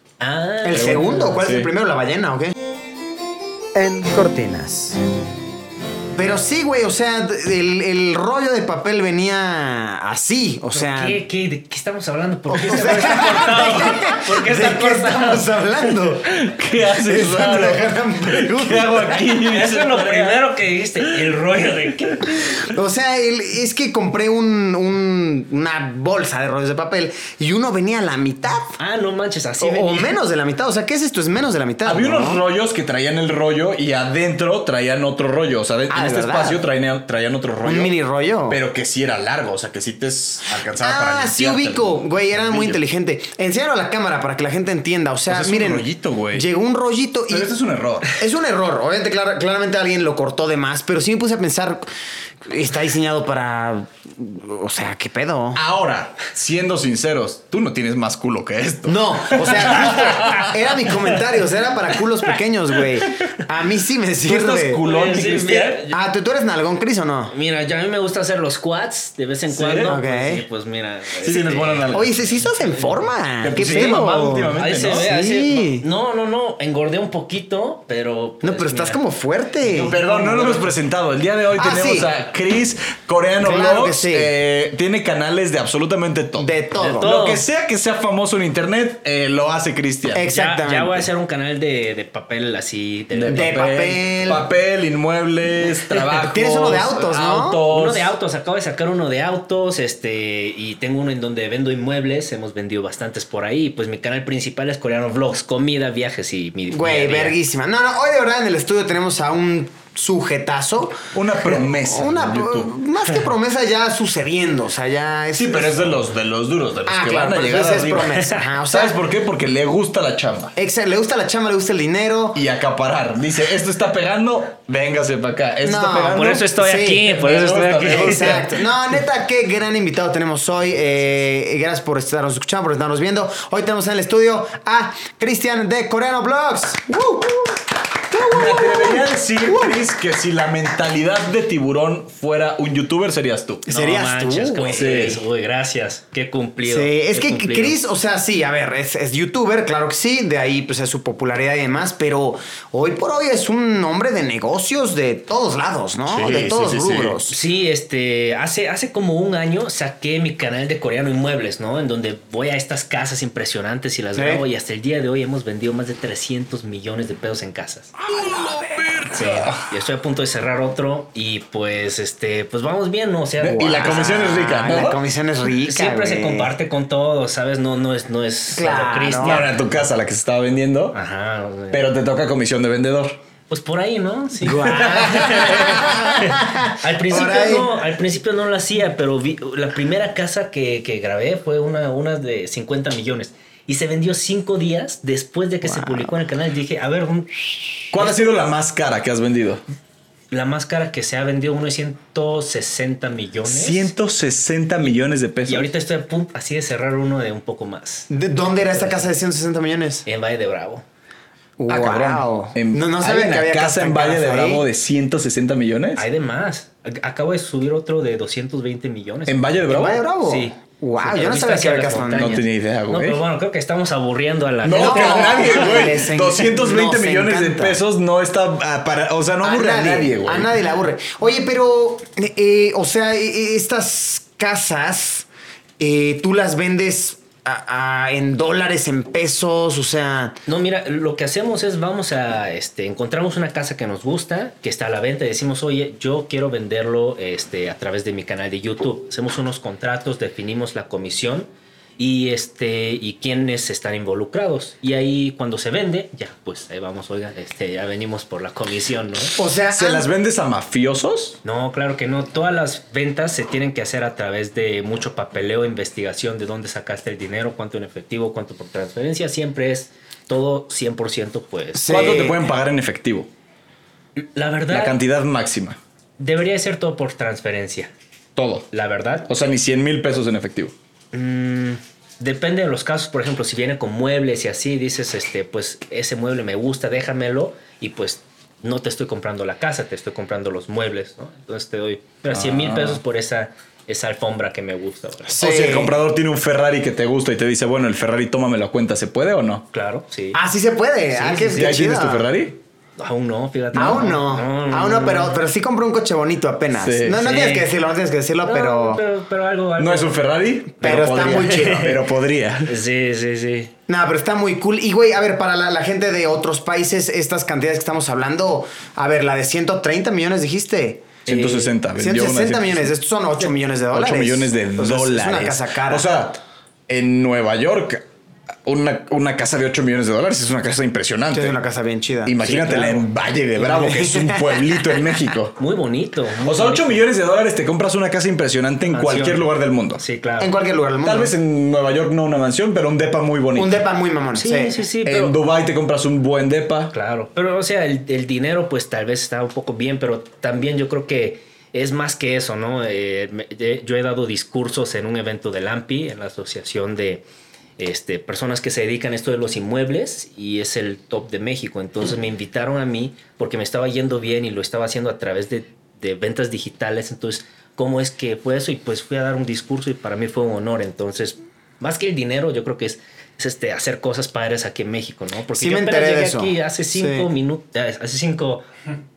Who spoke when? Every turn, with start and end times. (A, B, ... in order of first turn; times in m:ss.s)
0:00.2-0:01.3 A
0:00.6-0:02.5 B
0:00.7-0:01.7 C
0:03.7-0:05.0 B
0:06.1-0:11.2 B
0:10.7-0:15.6 A
0:12.5-0:16.3 B
0:16.2-0:20.4 C
0:16.9-0:19.2 B
0:19.4-0:22.5 A
0:22.6-0:28.8 B
0:28.8-0:30.1 A
0:29.6-0:32.4 B
0:31.8-0:37.9 C
0:35.9-0:36.6 B
0:37.6-0:38.6 B
0:38.5-0:42.8 C
0:40.8-0:47.5 B
0:45.3-0:46.5 C
0:47.3-0:48.1 C
0:48.1-0:51.9 B
0:52.4-0:55.6 B
0:55.5-1:00.5 C
0:58.8-1:04.8 B
0:59.9-1:00.5 A
1:04.2-1:05.8 C
1:04.8-1:06.0 A
1:05.9-1:07.3 B
1:07.3-1:14.0 A
1:09.5-1:10.0 C
1:09.8-1:10.4 B
1:11.2-1:12.1 C
1:11.9-1:15.8 B
1:13.4-1:15.1 C
1:14.6-1:19.0 A
1:18.4-1:20.0 B
1:19.6-1:20.7 A
1:19.6-1:30.2 C
1:21.5-1:22.1 B
1:23.4-1:24.3 B
1:26.4-1:27.1 B
1:26.8-1:27.4 A
1:30.1-1:31.1 B
1:30.3-1:33.7 A
1:33.1-1:38.1 C
1:33.3-1:34.4 B
1:36.1-1:37.6 B
1:37.7-1:47.4 A
1:46.7-1:56.0 B
1:51.1-1:52.7 C
1:55.3-2:00.5 C
1:56.8-1:59.0 B
2:00.6-2:02.4 B
2:02.3-2:06.5 C
2:05.6-2:07.1 B
2:06.1-2:08.5 A
2:07.1-2:08.5 C
2:07.7-2:19.8 B
2:18.3-2:23.7 C
2:23.7-2:24.9 B
2:23.7-2:27.8 A
2:24.7-2:25.2 C
2:26.6-2:37.4 B
2:36.1-2:37.2 C
2:37.3-2:47.9 A
2:44.2-2:44.4 B
2:48.1-2:49.6 C
2:49.1-2:54.1 A
2:53.4-2:55.0 C
2:53.8-2:56.5 B
2:55.6-2:59.7 A
2:58.6-2:59.4 B
2:59.2-3:01.0 C
3:00.9-3:01.8 A
3:01.7-3:03.2 C
3:03.5-3:18.2 A
3:04.4-3:07.8 B
3:15.7-3:16.1 B
3:17.9-3:19.6 C
3:20.3-3:23.9 A
3:23.4-3:25.7 C
3:25.4-3:28.1 A
3:28.1-3:30.0 B
3:28.7-3:29.1 A
3:30.0-3:30.8 A
3:31.6-3:34.6 B
3:31.7-3:36.0 C
3:36.0-3:39.6 A
3:39.3-3:40.0 C
3:39.7-3:42.4 B
3:40.2-3:45.8 A
3:42.1-3:43.2 C
3:44.6-3:50.5 C
3:44.6-3:47.8 B
3:49.4-3:55.2 B
3:55.8-4:00.4 B
4:00.5-4:19.3 A
4:19.4-4:20.1 B
4:19.7-4:21.4 C
4:21.4-4:32.2 A
4:31.7-4:32.4 B
4:31.9-4:33.3 C
4:34.2-4:35.0 A
4:34.7-4:35.8 C
4:36.2-4:37.9 A
4:38.3-4:38.7 C
4:38.7-4:39.3 A
4:39.3-4:40.7 C
4:41.1-4:55.6 A
4:52.3-4:53.0 C
4:55.4-4:55.9 B
4:55.4-4:59.6 C
4:59.7-5:00.4 A
5:00.3-5:02.3 B
5:01.2-5:02.6 C
5:03.0-5:05.4 A
5:03.7-5:09.0 B
5:03.8-5:04.1 C
5:06.7-5:07.2 C
5:07.2-5:07.7 A
5:08.4-5:10.2 A
5:09.8-5:12.8 C
5:10.8-5:12.0 A
5:10.8-5:12.0 B
5:12.6-5:13.7 A
5:13.9-5:26.1 B
5:21.2-5:21.7 A
5:21.2-5:22.9 C
5:23.9-5:28.0 C
5:28.6-5:31.6 C
5:31.3-5:33.0 B
5:32.2-5:35.6 C
5:33.6-5:35.1 B
5:35.6-5:37.0 A
5:36.4-5:40.0 C
5:38.9-5:40.5 A
5:40.4-5:41.3 B
5:41.0-5:43.8 C
5:43.6-5:44.8 B
5:44.3-5:45.4 A
5:45.0-5:46.9 C
5:46.9-5:57.2 A
5:57.8-6:18.7 A
6:15.5-6:17.3 B